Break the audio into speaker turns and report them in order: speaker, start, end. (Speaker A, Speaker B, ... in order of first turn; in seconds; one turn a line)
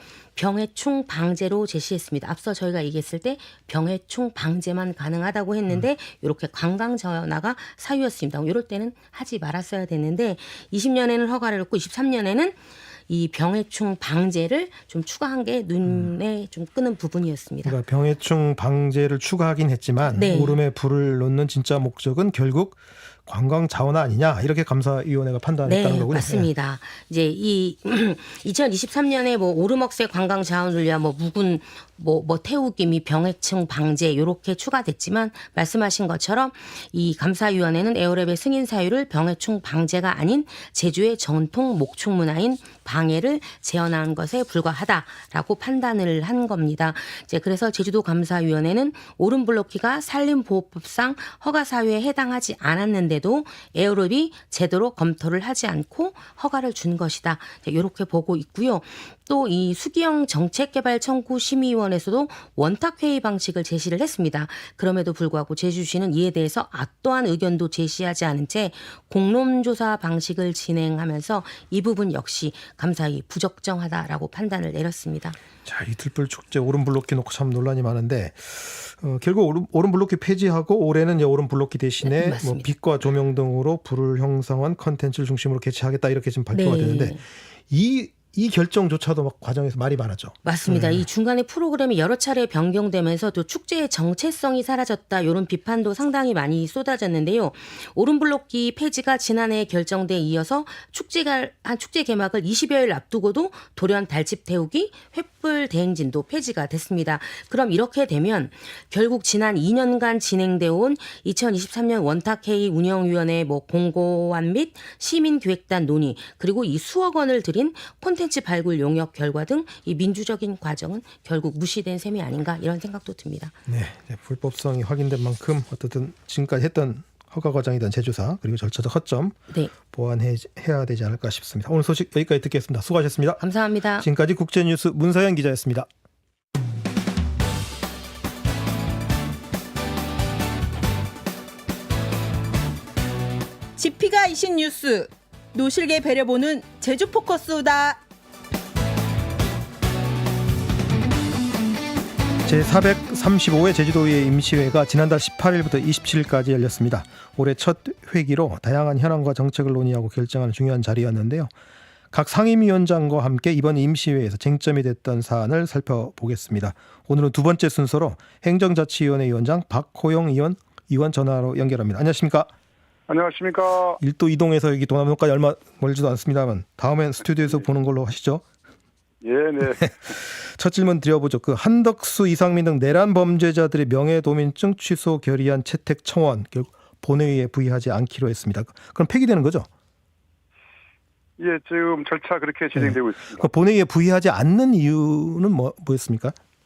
Speaker A: 0.3-17.8
Speaker B: 17.6-26.5
Speaker A: 20.1-20.6
Speaker A: 25.6-75.4
Speaker B: 75.6-91.0
Speaker A: 82.0-82.7
Speaker A: 86.5-87.2
Speaker A: 90.4-123.6
Speaker B: 123.7-133.4
Speaker A: 133.4-134.1
Speaker B: 134.0-135.9
Speaker C: 143.8-148.0
Speaker B: 152.4-161.5
Speaker B: 162.1-172.5
Speaker D: 173.1-174.0
Speaker B: 174.0-178.4
Speaker D: 179.2-180.1
Speaker B: 179.6-189.7
Speaker D: 191.4-193.5
Speaker B: 192.8-196.3